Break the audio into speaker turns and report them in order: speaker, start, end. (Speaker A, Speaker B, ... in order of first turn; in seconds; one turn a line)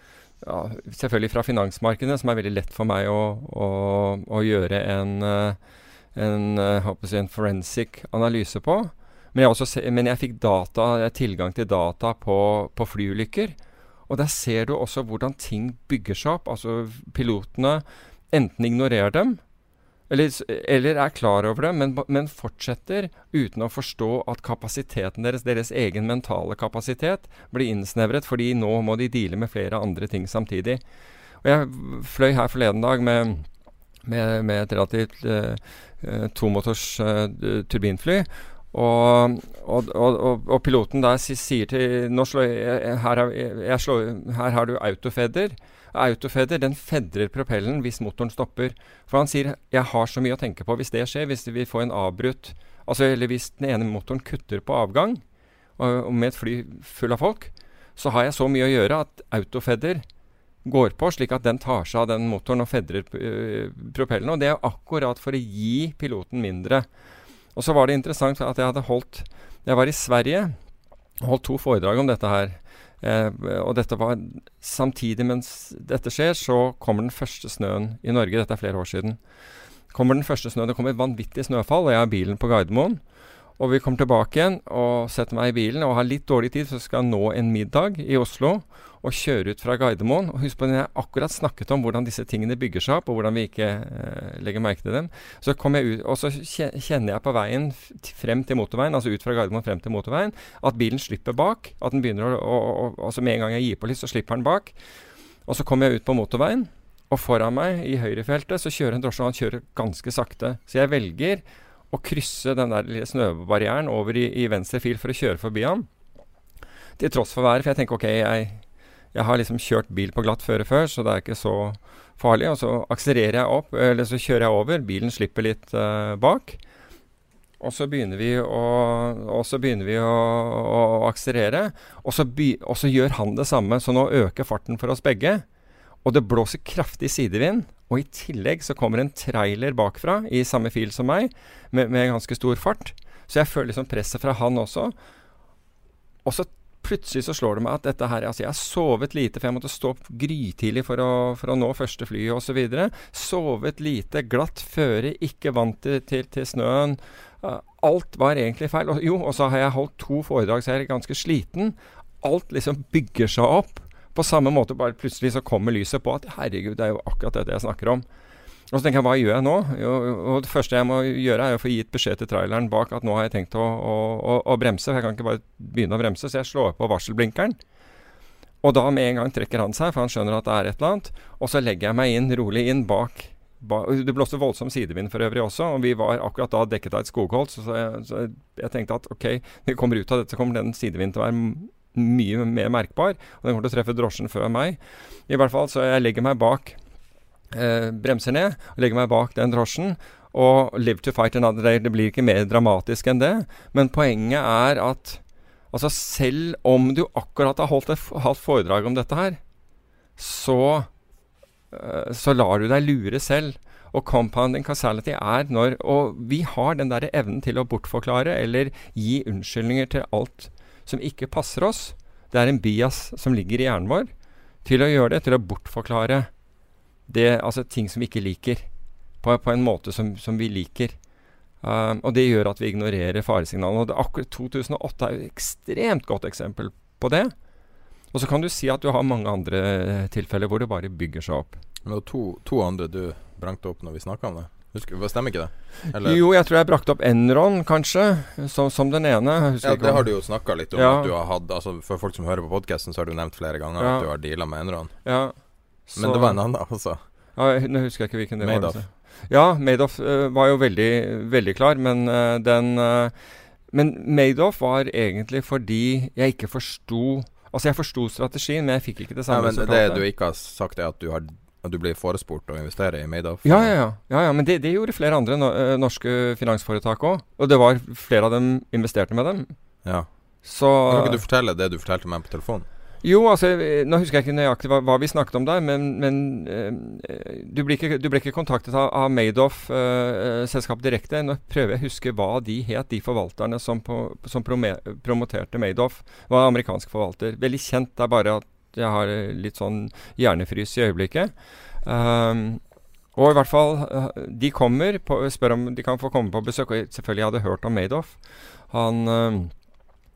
Speaker A: 0.4-5.6
Speaker A: 6.1-13.6
Speaker A: 14.1-19.4
Speaker A: 20.1-30.8
Speaker A: 31.4-33.5
Speaker A: 34.0-55.2
Speaker A: 55.8-60.0
Speaker A: 60.6-66.9
Speaker A: 67.5-70.5
Speaker A: 71.2-79.2
Speaker A: 79.9-83.0
Speaker A: 83.6-104.7
Speaker A: 105.5-115.9
Speaker A: 117.0-118.6
Speaker A: 119.1-126.6
Speaker A: 127.6-135.4
Speaker A: 136.0-144.9
Speaker A: 146.2-168.0
Speaker A: 168.7-177.6
Speaker A: 178.6-196.8
Speaker A: 197.5-205.2
Speaker A: 205.7-209.4
Speaker A: 210.2-210.9
Speaker A: 211.7-224.1
Speaker A: 224.6-226.3
Speaker A: 227.1-228.7
Speaker A: 229.2-231.0
Speaker A: 231.6-237.3
Speaker A: 238.1-241.6
Speaker B: 241.8-246.2
Speaker A: 245.9-251.1
Speaker B: 249.6-254.9
Speaker A: 253.8-254.1
Speaker A: 255.0-255.3
Speaker A: 255.9-256.4
Speaker B: 255.9-257.0
Speaker A: 257.4-263.1
Speaker B: 258.4-258.8
Speaker A: 263.7-270.0
Speaker B: 269.3-273.7
Speaker A: 273.4-279.5
Speaker A: 280.4-281.2
Speaker B: 280.9-282.7
Speaker A: 283.0-302.6
Speaker A: 303.1-309.5